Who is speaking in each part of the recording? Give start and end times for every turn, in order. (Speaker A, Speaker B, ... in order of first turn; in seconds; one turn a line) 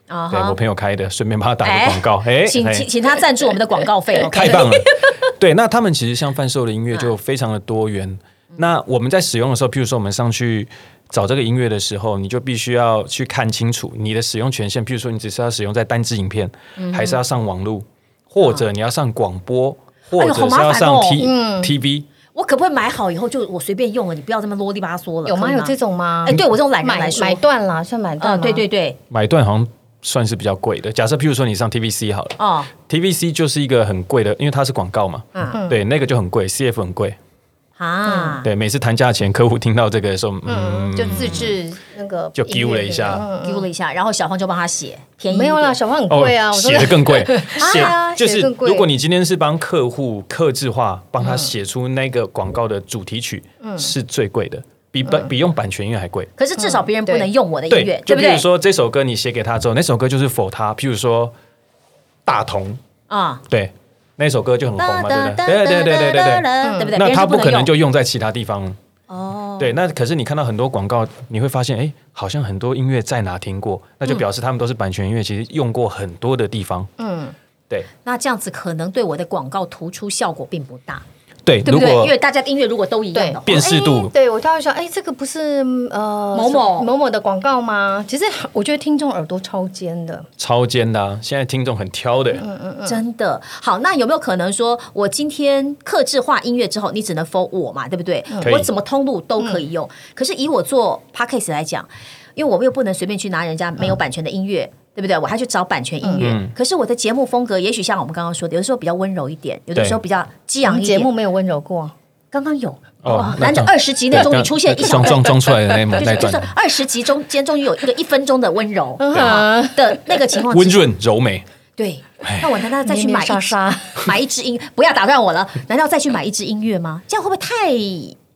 Speaker A: 0.1-0.6
Speaker B: 0.3-2.9
Speaker A: 1.6-5.1
Speaker B: 4.3-22.1
Speaker A: 16.8-17.2
Speaker A: 20.2-21.2
Speaker C: 21.2-21.7
Speaker A: 22.3-27.4
Speaker C: 25.2-28.7
Speaker A: 28.2-29.0
Speaker B: 29.1-32.3
Speaker A: 32.4-32.7
Speaker B: 32.9-37.2
Speaker C: 35.5-35.8
Speaker A: 37.8-38.5
Speaker C: 38.0-38.4
Speaker B: 38.4-41.5
Speaker C: 40.5-43.7
Speaker B: 42.4-43.3
Speaker A: 43.4-45.8
Speaker C: 45.3-48.9
Speaker B: 46.1-56.3
Speaker A: 47.6-47.9
Speaker C: 51.2-51.5
Speaker C: 53.6-53.9
Speaker C: 55.0-55.3
Speaker A: 56.4-58.4
Speaker C: 56.6-57.3
Speaker B: 57.7-61.3
Speaker B: 62.2-62.8
Speaker A: 63.1-63.4
Speaker B: 63.5-68.8
Speaker A: 64.7-67.7
Speaker C: 66.6-67.0
Speaker A: 69.1-69.7
Speaker B: 69.6-76.9
Speaker C: 77.0-77.3
Speaker A: 78.0-81.0
Speaker B: 81.5-82.1
Speaker A: 81.6-83.6
Speaker C: 83.1-90.3
Speaker B: 83.4-84.1
Speaker A: 86.3-86.9
Speaker B: 90.4-92.4
Speaker C: 92.3-93.0
Speaker A: 92.8-111.1
Speaker C: 98.3-98.6
Speaker B: 98.4-98.7
Speaker C: 99.4-99.6
Speaker C: 106.0-106.3
Speaker B: 106.2-106.5
Speaker C: 110.7-111.9
Speaker A: 112.3-120.8
Speaker B: 113.0-116.5
Speaker C: 119.0-120.0
Speaker B: 119.1-119.4
Speaker B: 120.5-121.4
Speaker A: 121.8-128.2
Speaker B: 122.2-122.6
Speaker C: 122.8-124.1